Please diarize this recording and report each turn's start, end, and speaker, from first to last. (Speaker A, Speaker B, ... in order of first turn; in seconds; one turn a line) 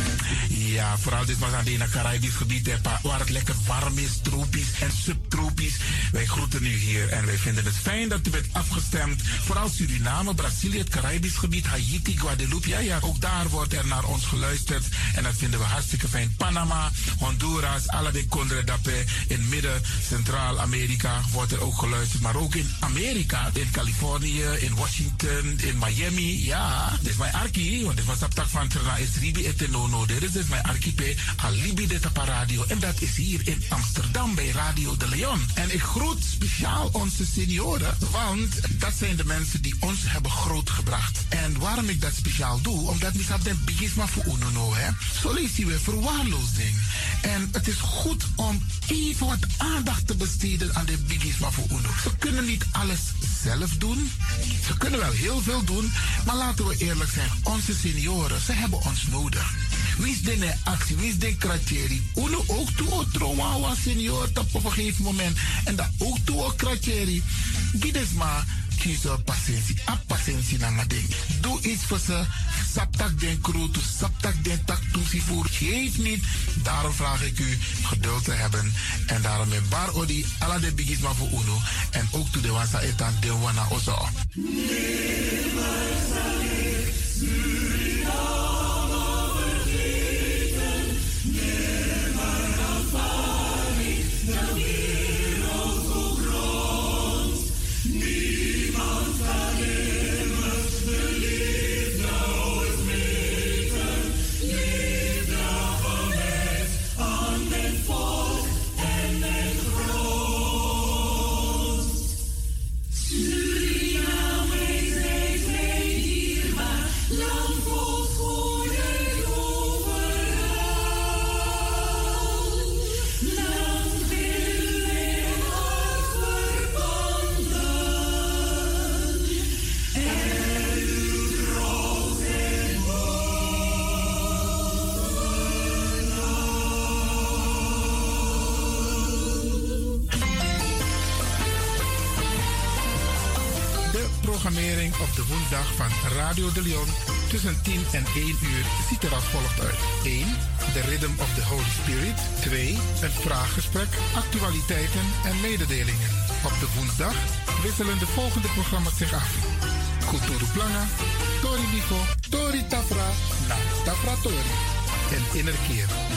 Speaker A: 0.4-84.1
Speaker A: 143.8-166.0